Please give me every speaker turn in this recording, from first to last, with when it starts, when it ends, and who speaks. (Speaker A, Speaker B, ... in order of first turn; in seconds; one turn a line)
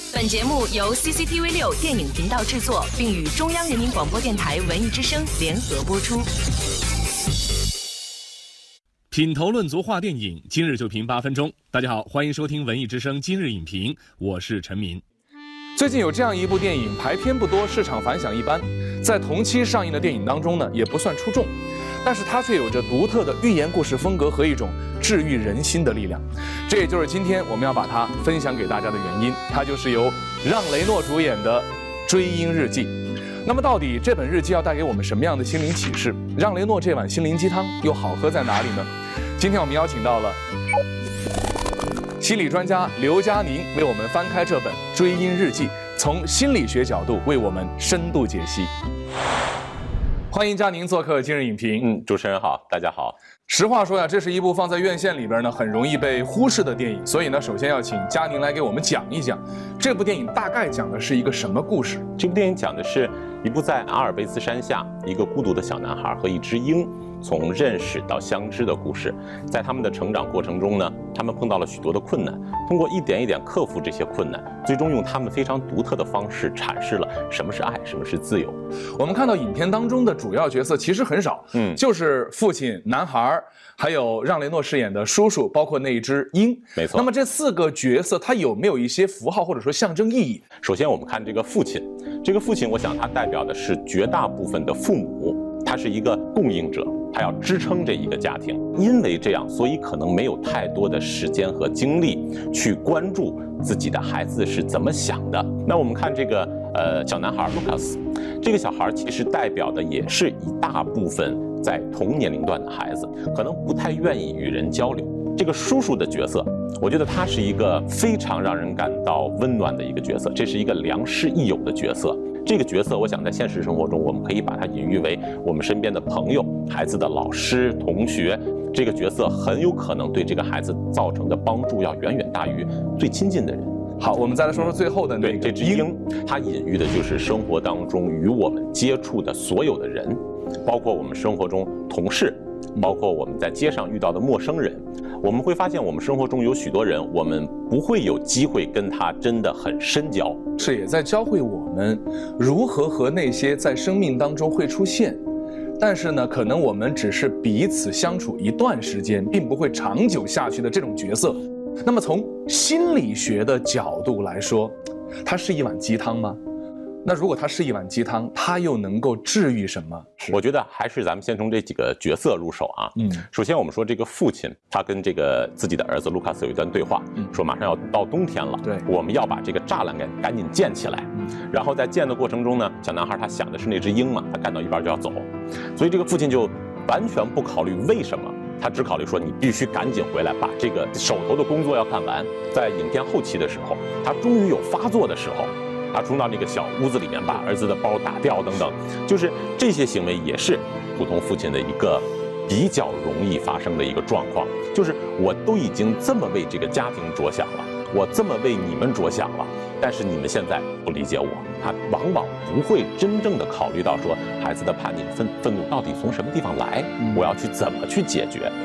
Speaker A: 0.1-6.3
Speaker B: 9.1-15.0
Speaker C: 15.8-40.4
Speaker C: 42.2-48.7
Speaker C: 50.3-51.9
Speaker D: 51.8-53.2
Speaker C: 53.5-62.0
Speaker D: 62.2-78.6
Speaker C: 79.0-90.5
Speaker D: 81.5-81.8
Speaker D: 86.8-87.1
Speaker D: 90.6-133.7
Speaker C: 134.0-135.9
Speaker D: 134.6-150.4
Speaker C: 150.6-155.2
Speaker C: 155.8-166.4
Speaker C: 167.0-170.4
Speaker D: 170.3-218.5
Speaker C: 217.0-217.3